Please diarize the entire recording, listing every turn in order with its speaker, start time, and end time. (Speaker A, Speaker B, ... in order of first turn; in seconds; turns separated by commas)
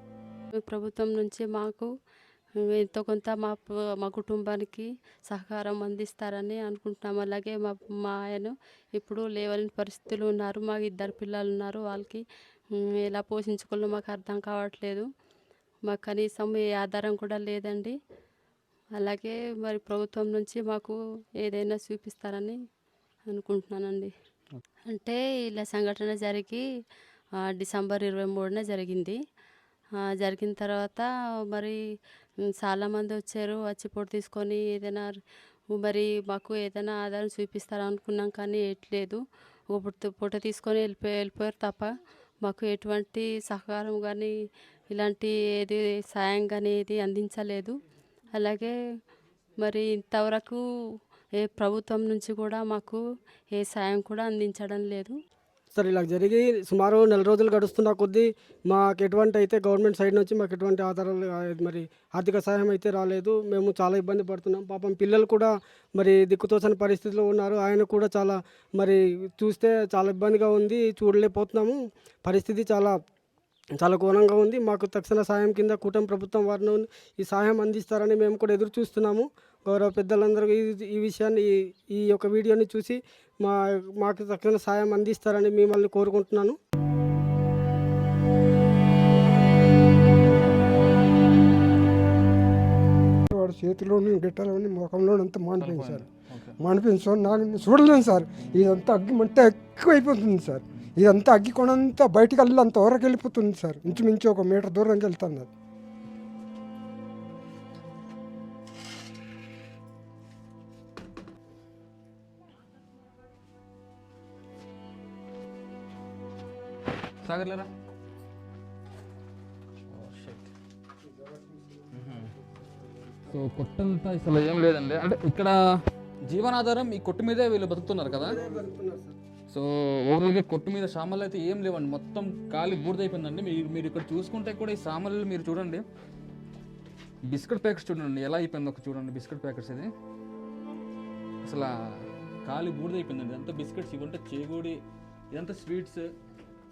Speaker A: 0.7-1.9, Speaker A: 2.6-12.2, Speaker A: 13.1-15.1, Speaker A: 15.9-17.9, Speaker A: 19.0-22.6, Speaker A: 23.3-24.1, Speaker A: 24.9-26.6, Speaker A: 27.6-29.2, Speaker A: 30.2-31.8, Speaker A: 32.6-35.1, Speaker A: 35.7-39.2, Speaker A: 39.7-41.9, Speaker A: 42.4-44.3, Speaker A: 44.9-47.7, Speaker A: 48.4-48.8, Speaker A: 49.6-50.6, Speaker A: 51.4-53.0, Speaker A: 53.5-55.1, Speaker B: 55.8-73.0, Speaker B: 73.8-86.6, Speaker C: 93.3-96.1, Speaker D: 95.6-96.5, Speaker C: 96.6-105.5, Speaker D: 98.4-98.7, Speaker D: 117.2-117.7, Speaker D: 119.9-120.5, Speaker C: 121.0-123.4, Speaker D: 121.9-122.3, Speaker D: 123.3-125.6, Speaker D: 126.3-128.4, Speaker B: 128.1-129.2, Speaker C: 128.2-128.7, Speaker D: 129.5-135.8, Speaker D: 137.3-139.9, Speaker D: 141.5-141.8, Speaker D: 142.5-144.8, Speaker D: 145.3-146.1